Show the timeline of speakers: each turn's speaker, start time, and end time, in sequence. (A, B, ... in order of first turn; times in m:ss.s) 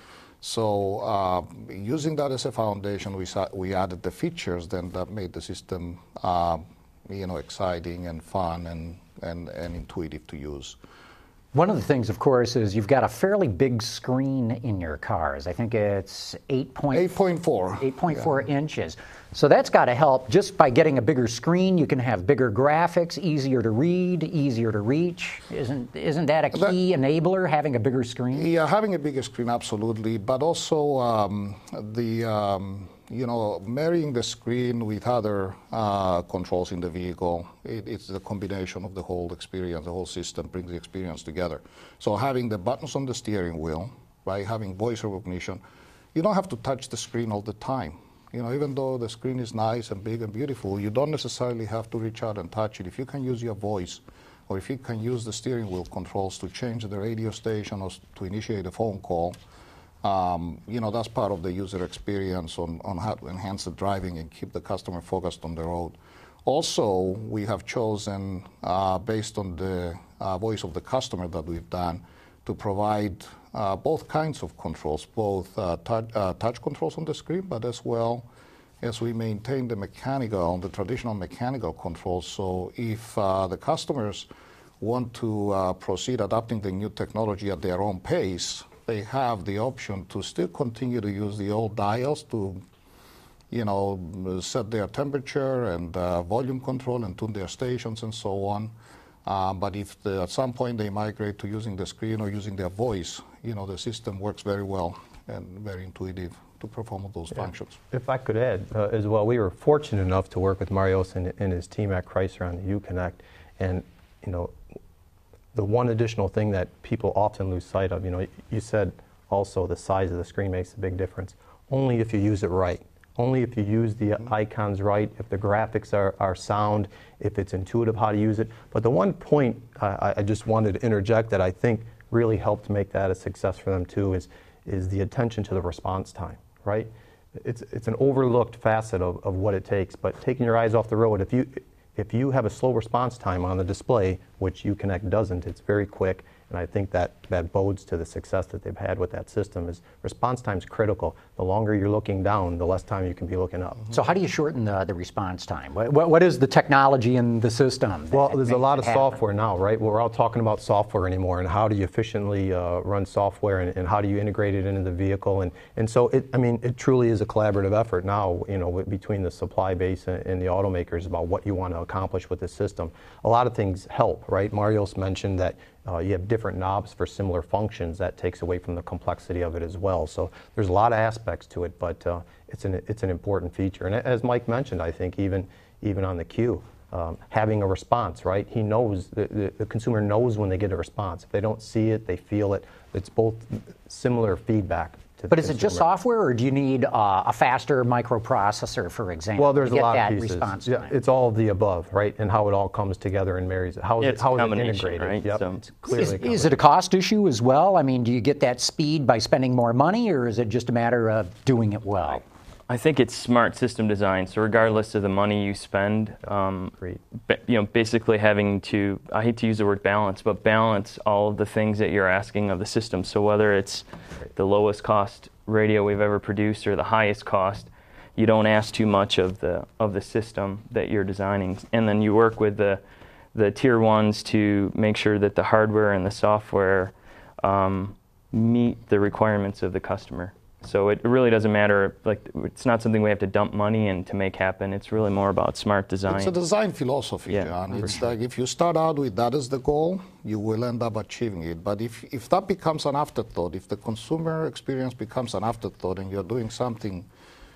0:00.4-0:10.8 A
0:11.5-0:17.2 B
0:16.9-0:18.3 A
0:17.8-0:28.5 B
0:28.3-0:45.6 A
0:46.1-0:59.4 A
1:00.0-1:18.2 A
1:18.8-1:24.3 A
1:24.8-1:32.6 A
1:33.5-1:38.7 A
1:39.2-1:47.8 A
1:47.4-1:54.5 C
1:55.5-2:33.9 C
2:33.9-2:39.2 B
2:38.1-3:15.9 C
3:15.3-3:20.9 B
3:19.4-3:26.6 C
3:24.0-3:26.2 D
3:25.9-3:32.2 B
3:32.7-3:43.8 D
3:44.3-3:52.8 D
3:53.3-4:06.3 D
4:06.1-4:17.1 A
4:07.3-4:08.0 D